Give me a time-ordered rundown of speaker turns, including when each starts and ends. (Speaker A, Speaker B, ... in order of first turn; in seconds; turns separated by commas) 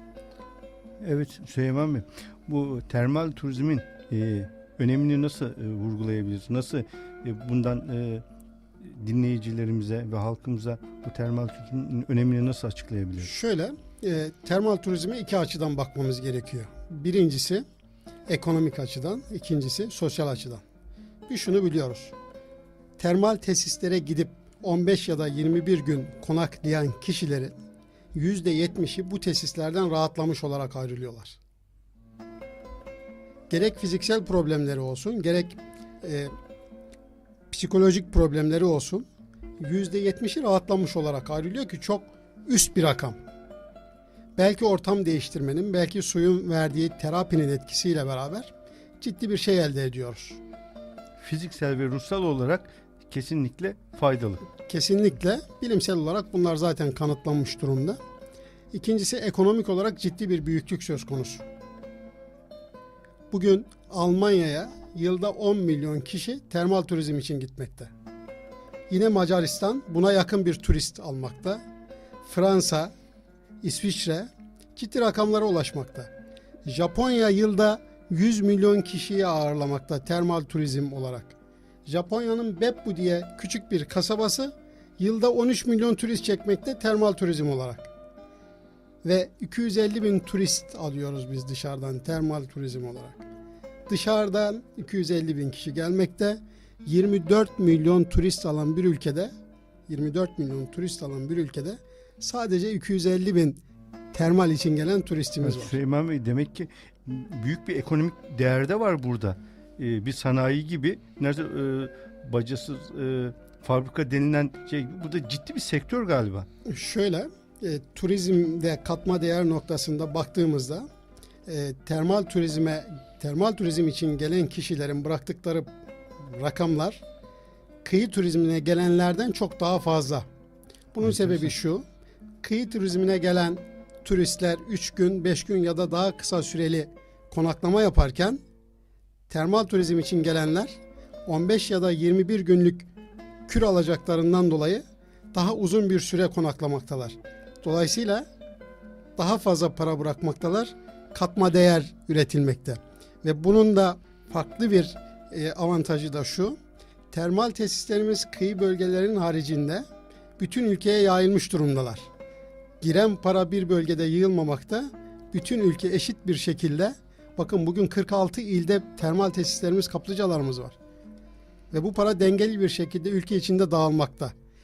Speaker A: 1.0-8.2, Speaker A: 8.8-13.3, Speaker B: 13.2-17.6, Speaker B: 18.3-20.6, Speaker B: 21.3-22.1, Speaker B: 23.0-27.5, Speaker B: 28.1-31.4, Speaker B: 33.5-36.3, Speaker B: 37.5-39.0, Speaker B: 39.6-43.2, Speaker B: 44.4-50.4, Speaker A: 51.2-54.4, Speaker B: 54.6-58.0, Speaker B: 58.7-61.5, Speaker B: 63.3-67.9, Speaker B: 68.9-71.6, Speaker B: 72.2-72.9, Speaker B: 73.6-76.1, Speaker B: 76.6-81.3, Speaker B: 81.8-87.9, Speaker B: 89.0-93.2, Speaker B: 93.9-99.3, Speaker B: 99.9-103.6, Speaker B: 104.1-105.8, Speaker A: 105.4-116.5, Speaker B: 116.7-120.9, Speaker B: 121.5-125.7, Speaker B: 126.2-127.0, Speaker B: 127.8-130.2, Speaker B: 130.9-131.8, Speaker A: 131.1-131.4, Speaker B: 132.4-138.4, Speaker B: 139.3-142.9, Speaker B: 143.5-148.2, Speaker B: 149.2-156.6, Speaker B: 157.1-159.8, Speaker B: 160.4-162.1, Speaker B: 162.8-170.8, Speaker B: 171.7-174.3